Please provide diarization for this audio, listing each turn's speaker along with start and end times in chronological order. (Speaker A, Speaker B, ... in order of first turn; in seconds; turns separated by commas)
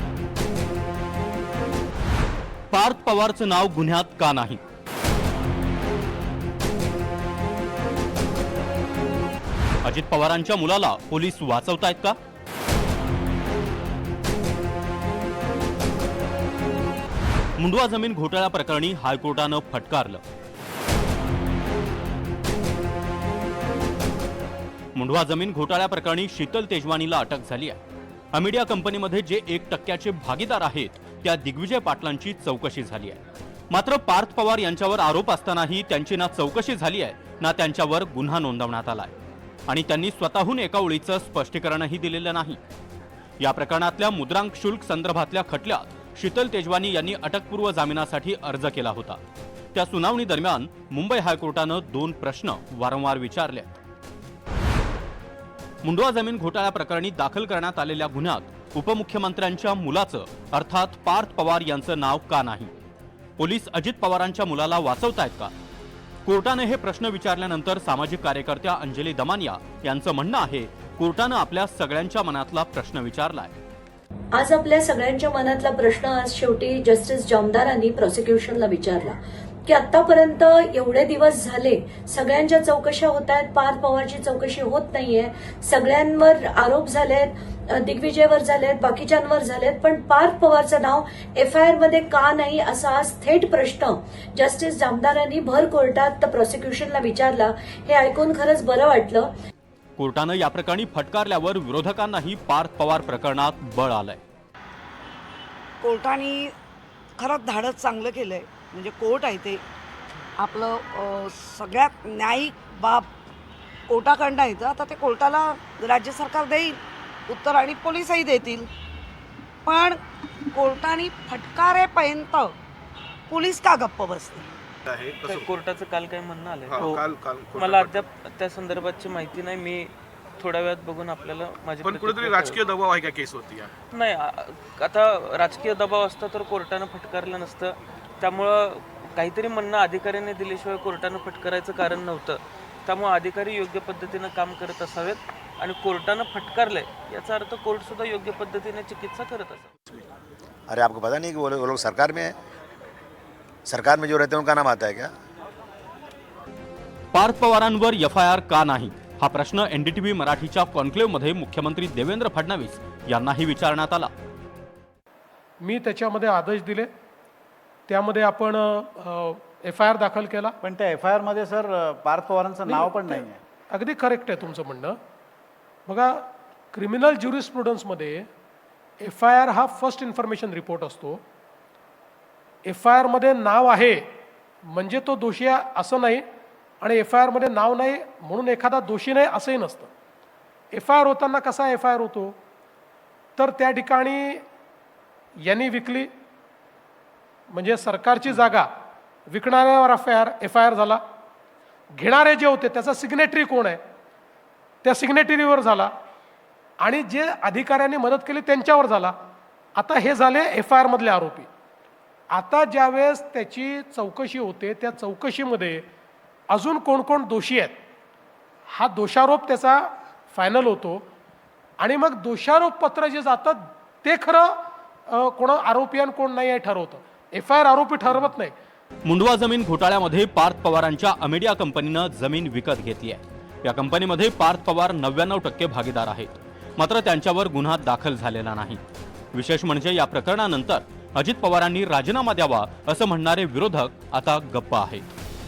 Speaker A: 2.7-4.6, Speaker A: 9.8-12.2, Speaker A: 17.6-20.2, Speaker A: 25.0-27.8, Speaker A: 28.3-33.2, Speaker A: 33.7-39.1, Speaker A: 39.7-42.6, Speaker A: 43.4-49.2, Speaker A: 49.8-53.8, Speaker A: 55.8-62.7, Speaker A: 63.4-65.5, Speaker A: 66.2-73.6, Speaker B: 74.3-99.3, Speaker A: 100.0-104.2, Speaker C: 105.8-106.5, Speaker C: 107.2-109.6, Speaker C: 110.4-113.1, Speaker C: 113.9-118.7, Speaker C: 119.7-120.0, Speaker C: 120.5-122.6, Speaker C: 123.3-124.5, Speaker D: 124.9-125.5, Speaker E: 125.2-132.6, Speaker D: 126.7-128.1, Speaker D: 131.8-133.7, Speaker E: 133.9-149.7, Speaker F: 150.7-152.3, Speaker F: 153.7-155.1, Speaker A: 157.1-164.1, Speaker G: 165.6-166.9, Speaker G: 167.9-170.6, Speaker H: 170.6-173.4, Speaker G: 172.7-175.0, Speaker G: 175.9-178.3, Speaker G: 179.0-181.2, Speaker G: 182.7-184.1, Speaker G: 184.7-186.3, Speaker G: 186.8-189.9, Speaker G: 190.7-192.4, Speaker G: 193.4-194.4, Speaker G: 195.4-196.1, Speaker G: 197.5-198.7, Speaker G: 199.3-201.0, Speaker G: 201.9-203.8, Speaker G: 204.8-205.9, Speaker G: 206.8-209.2, Speaker G: 209.8-211.5, Speaker G: 212.3-215.9, Speaker G: 216.5-217.8, Speaker G: 218.7-221.1, Speaker G: 221.8-228.5, Speaker A: 229.1-238.8, Speaker A: 239.3-245.1